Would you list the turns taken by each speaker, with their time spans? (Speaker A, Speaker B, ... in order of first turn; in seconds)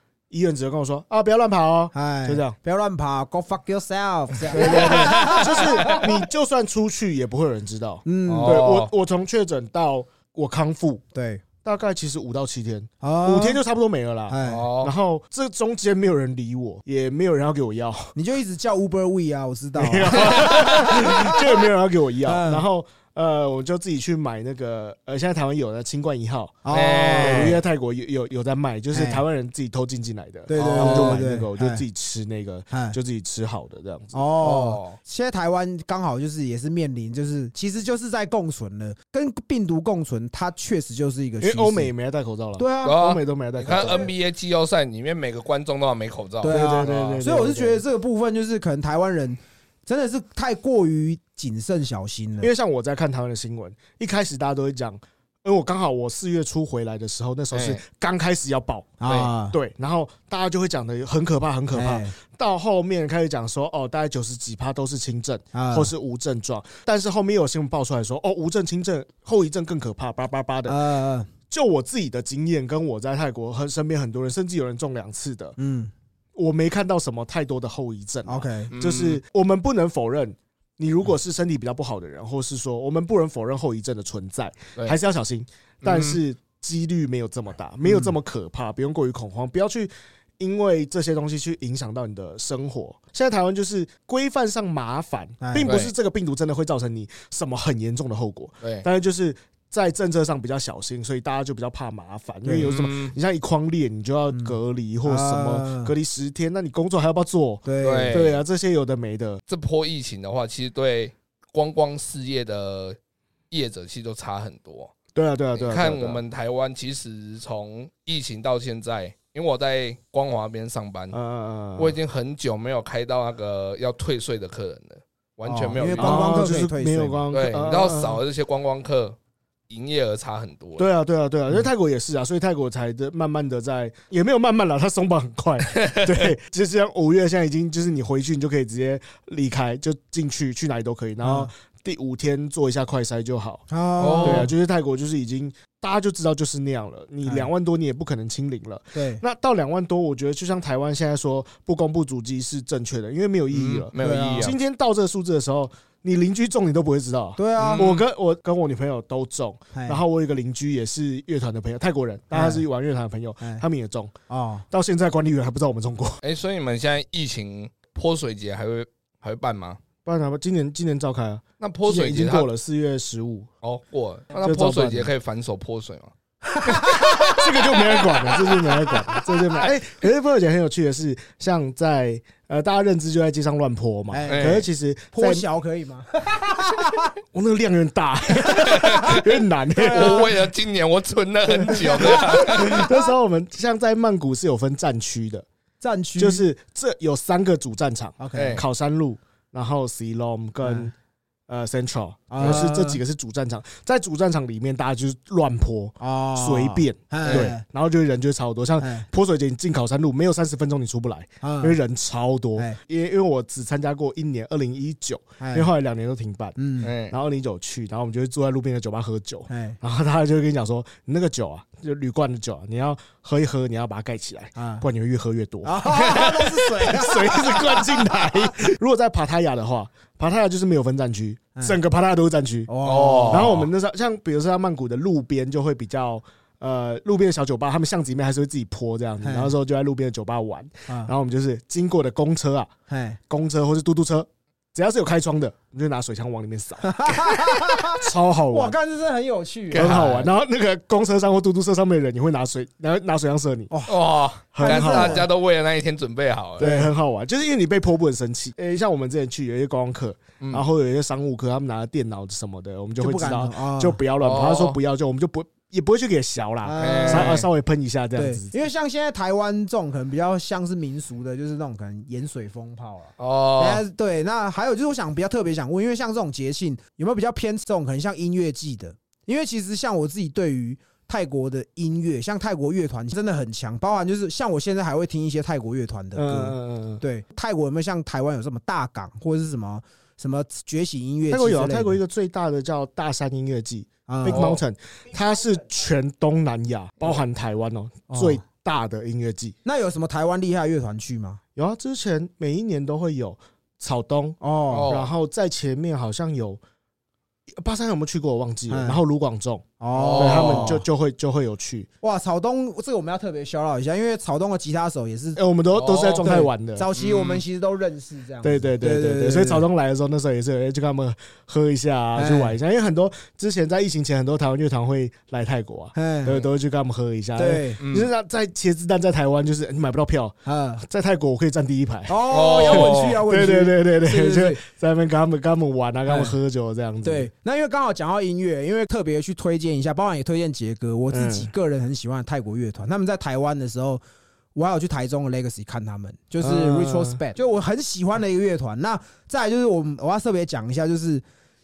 Speaker A: 0.3-2.6, 4.5-11.0, 11.6-18.1, 19.8-26.6, 27.1-34.1, 41.4-44.1, 46.4-47.8, 52.4-59.0, 59.5-70.8, 71.5-75.5, 76.4-109.4, 115.1-116.2, 121.1-122.0, 125.9-128.2, 130.8-143.6, 144.2-164.1, 164.7-166.2, 170.1-173.5, 174.4-175.1, 177.2-185.4, 187.3-190.4, 191.5-195.4, 196.2-200.9, 201.5-216.6, 217.1-232.7, 233.2-242.7, 243.3-248.8, 249.7-253.7, 254.5-255.3, 256.6-268.6, 286.1-287.0, 291.3-299.6, 301.6-306.6, 307.5-311.9, 315.4-316.9, 318.4-337.3, 341.1-341.5, 346.4-347.2
Speaker B: 1.9-6.0, 8.1-8.7, 11.1-11.4, 13.0-13.6, 14.3-14.7, 18.1-21.7, 22.2-22.6, 26.6-27.6, 28.9-29.2, 30.5-31.8, 32.7-33.0, 34.1-41.9, 42.6-43.0, 43.7-44.1, 46.4-52.5, 59.0-59.5, 61.7-62.1, 65.5-65.9, 70.7-71.3, 75.6-75.9, 78.2-78.7, 87.8-88.1, 95.4-95.7, 104.3-105.9, 107.6-108.2, 125.5-127.2, 141.2-141.5, 143.7-144.5, 147.2-147.5, 148.9-149.2, 153.9-154.5, 157.4-158.0, 159.7-160.0, 162.3-162.6, 164.3-164.6, 176.4-177.9, 184.1-187.1, 188.5-189.2, 189.7-190.4, 191.7-192.9, 195.8-196.4, 198.2-198.6, 200.6-200.9, 202.3-203.0, 206.0-207.6, 208.8-209.1, 211.4-211.8, 215.4-215.7, 216.6-216.9, 219.5-219.8, 224.6-224.8, 225.6-228.5, 232.7-233.5, 239.2-239.5, 242.9-243.2, 246.8-250.1, 253.7-254.0, 254.6-255.3, 256.6-256.9, 263.0-264.0, 266.6-267.4, 268.1-292.0, 294.1-294.5, 298.1-298.4, 299.6-301.4, 304.4-304.9, 308.7-309.0, 309.8-310.8, 312.0-315.4, 316.2-319.6, 322.1-322.6, 325.9-326.4, 327.4-327.8, 330.4-330.8, 332.1-334.6, 336.1-336.3, 337.0-344.0, 344.6-351.2
Speaker C: 4.6-6.1, 8.3-8.9, 14.4-14.9, 26.7-27.6, 30.5-31.2, 34.4-35.0, 42.8-47.2, 57.5-57.8, 78.7-79.2, 85.8-86.2, 95.6-95.9, 98.6-98.9, 102.6-103.1, 107.8-108.4, 109.5-113.0, 113.5-114.9, 115.5-121.2, 121.8-126.5, 127.3-129.2, 129.7-130.9, 135.7-136.3, 144.0-144.5, 153.5-154.6, 157.6-158.0, 166.2-169.8, 171.6-172.5, 173.6-176.1, 176.6-177.3, 178.0-178.4, 184.3-184.7, 188.5-192.9, 198.3-198.6, 207.2-207.5, 216.8-217.1, 232.8-233.7, 249.7-250.3, 253.9-256.7, 264.2-264.8, 266.8-267.5, 273.2-273.8, 294.3-294.6, 304.7-305.1, 309.9-310.8, 315.7-316.4, 316.9-317.4, 327.8-328.1, 332.3-333.2